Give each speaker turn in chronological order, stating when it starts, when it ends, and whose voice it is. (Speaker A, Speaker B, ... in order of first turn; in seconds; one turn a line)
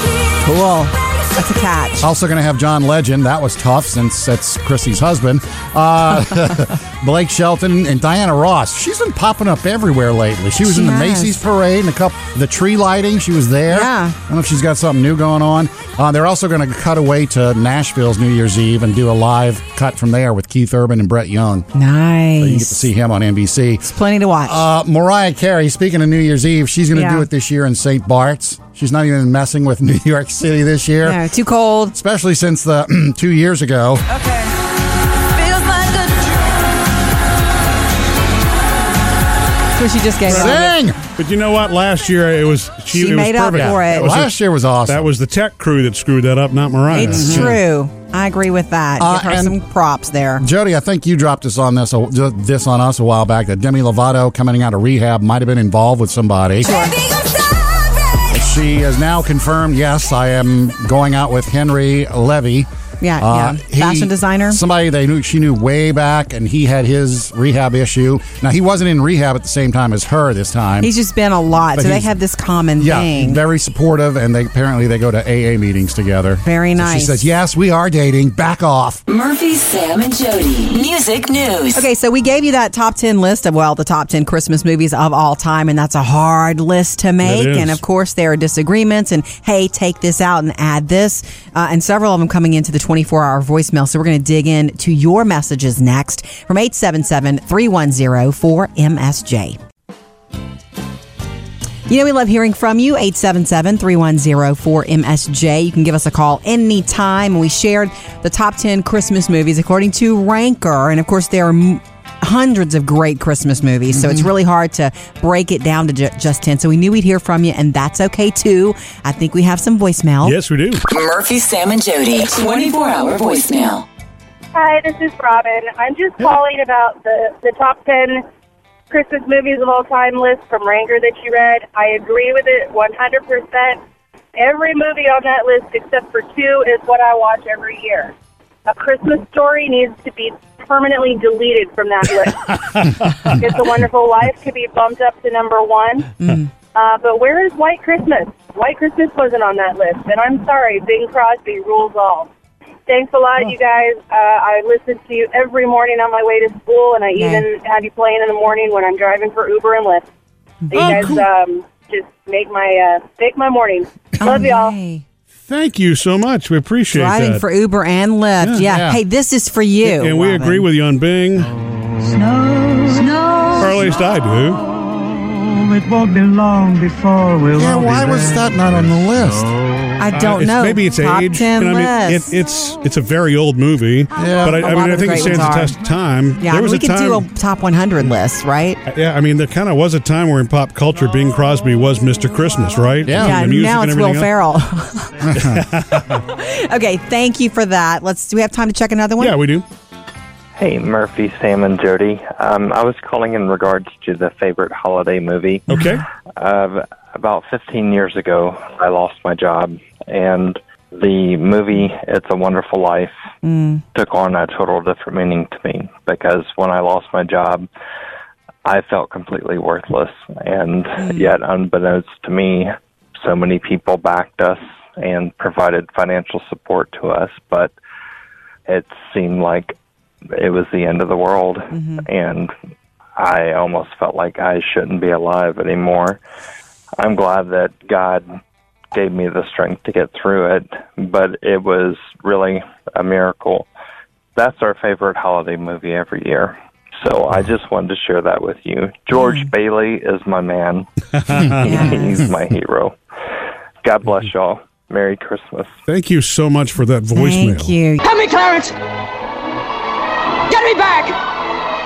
Speaker A: 0.4-2.0
Speaker B: 2.0-21.7
Speaker A: 10.6-11.4
Speaker A: 13.7-14.2
Speaker A: 21.7-22.9
Speaker B: 22.4-23.9
Speaker A: 23.8-24.6
Speaker B: 24.4-31.2
Speaker A: 26.9-27.3
Speaker A: 31.0-31.9
Speaker B: 31.9-34.0
Speaker A: 34.1-34.5
Speaker A: 35.4-36.3
Speaker A: 39.8-40.7
Speaker B: 40.3-41.0
Speaker C: 40.3-40.6
Speaker C: 41.1-44.3
Speaker A: 42.9-44.2
Speaker B: 43.5-45.0
Speaker C: 44.9-47.5
Speaker A: 46.9-50.4
Speaker B: 47.0-47.6
Speaker B: 49.0-49.5
Speaker B: 50.4-56.7
Speaker A: 56.6-57.0
Speaker B: 58.3-62.7
Speaker A: 63.0-64.6
Speaker B: 63.2-70.9
Speaker A: 70.8-73.4
Speaker B: 71.8-72.1
Speaker B: 72.8-79.0
Speaker A: 76.4-77.2
Speaker D: 79.1-81.8
Speaker A: 81.7-99.6
Speaker C: 87.2-87.8
Speaker A: 101.9-120.4
Speaker C: 120.2-120.8
Speaker D: 120.9-123.9
Speaker E: 124.5-128.2
Speaker E: 128.9-133.8
Speaker E: 134.4-138.1
Speaker E: 138.7-142.6
Speaker E: 143.2-146.1
Speaker A: 146.2-146.5
Speaker E: 146.7-152.3
Speaker E: 152.9-160.1
Speaker A: 157.2-157.4
Speaker E: 160.7-164.7
Speaker C: 160.8-161.1
Speaker A: 164.2-165.0
Speaker C: 165.5-167.4
Speaker A: 166.9-170.6
Speaker B: 168.6-169.0
Speaker C: 169.8-171.5
Speaker A: 172.2-173.6
Speaker C: 173.6-174.6
Speaker F: 175.6-178.2
Speaker B: 177.5-179.5
Speaker A: 180.0-182.3
Speaker C: 180.1-187.2
Speaker B: 184.2-184.6
Speaker A: 184.4-185.8
Speaker A: 186.4-188.8
Speaker C: 188.9-194.3
Speaker B: 193.1-193.4
Speaker A: 193.2-195.3
Speaker B: 195.3-195.6
Speaker C: 195.4-196.2
Speaker A: 196.0-199.4
Speaker C: 199.2-199.6
Speaker G: 200.6-205.7
Speaker C: 205.7-206.0
Speaker G: 206.4-213.2
Speaker A: 213.4-213.8
Speaker G: 213.9-217.7
Speaker G: 218.6-227.7
Speaker A: 221.0-221.3
Speaker G: 228.7-229.7
Speaker G: 230.3-232.5
Speaker A: 231.7-232.0
Speaker G: 233.2-236.2
Speaker G: 237.0-238.3
Speaker G: 238.9-243.7
Speaker G: 244.4-252.9
Speaker A: 249.1-249.5
Speaker A: 251.6-252.2
Speaker G: 253.8-255.8
Speaker C: 255.9-257.8
Speaker A: 257.1-258.0
Speaker F: 258.2-258.7
Speaker F: 260.5-261.1